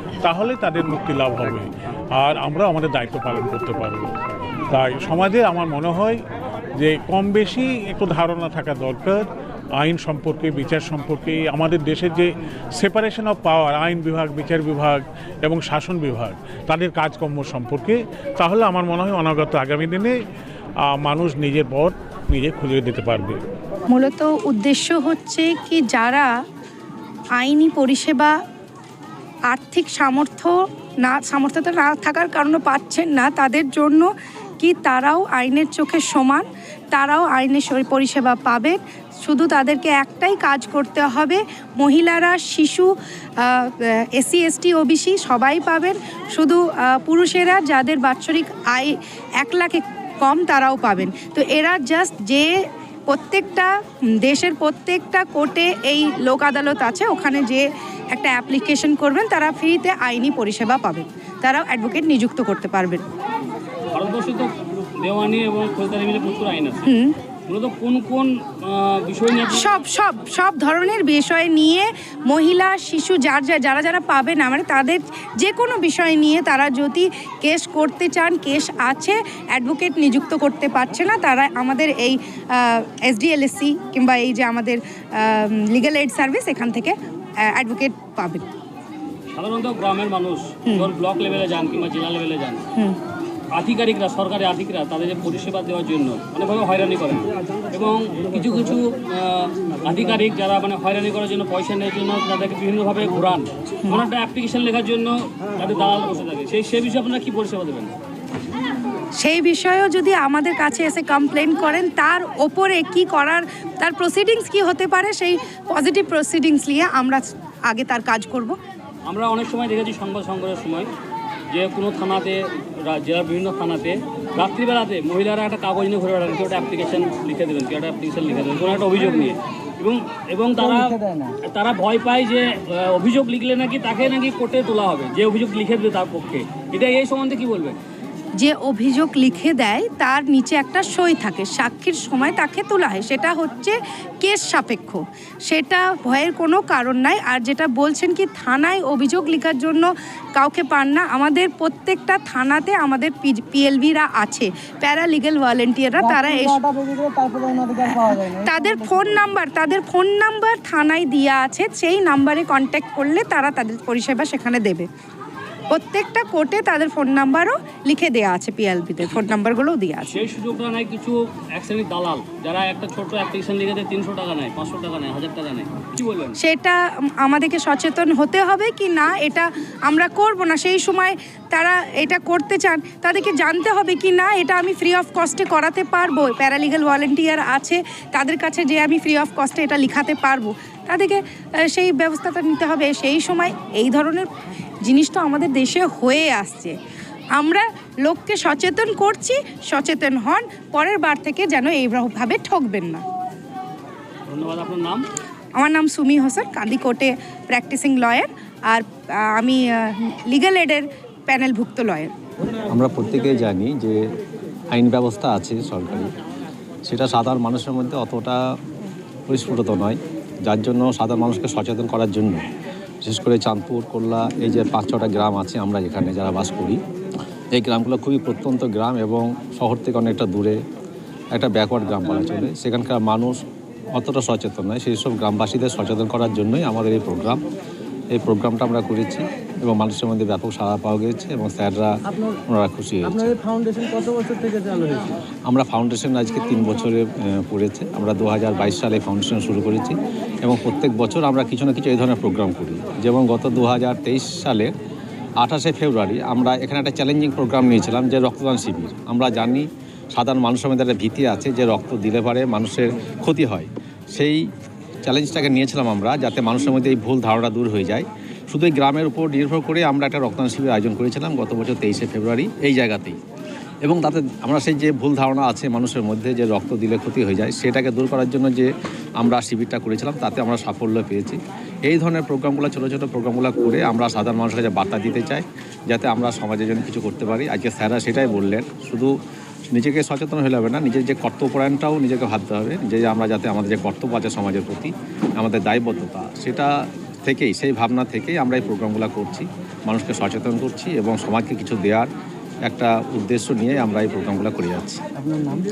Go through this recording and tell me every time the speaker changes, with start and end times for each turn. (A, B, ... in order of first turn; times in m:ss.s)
0:00.2-0:04.1 A
0:04.7-0:06.2 A
0:06.8-0:09.2 A
0:09.8-0:20.1 A
0:20.9-0:23.4 A
0:23.9-0:26.3 B
0:27.4-0:28.4 B
0:29.5-1:03.1 B
1:04.0-1:06.9 C
1:06.9-1:07.1 B
1:07.5-1:09.7 C
1:09.6-1:28.5 B
1:29.4-1:32.6 C
1:33.6-1:47.9 C
1:49.2-1:58.6 B
1:59.1-2:00.9 C
2:01.5-2:17.8 C
2:10.6-2:11.4 D
2:18.4-2:36.6 B
2:36.0-2:39.3 D
2:37.8-2:44.9 B
2:45.7-2:50.1 B
2:50.0-2:56.4 C
2:56.4-3:14.3 B
3:14.8-3:16.8 B
3:17.3-3:23.0 B
3:24.3-3:25.1 C
3:25.6-3:32.1 B
3:32.7-3:34.0 E
3:34.7-3:36.1 E
3:36.9-3:38.4 E
3:39.3-3:42.5 E
3:43.0-3:46.8 E
3:47.5-3:50.6 E
3:51.3-3:53.4 E
3:53.9-3:57.4 E
3:58.1-4:02.0 E
4:02.5-4:03.3 E
4:03.0-4:05.0 D
4:05.5-4:14.7 E
4:15.4-4:24.4 E
4:25.0-4:33.2 E
4:33.8-4:49.1 E
4:49.7-4:56.7 E
4:57.2-5:02.1 E
5:02.6-5:05.0 E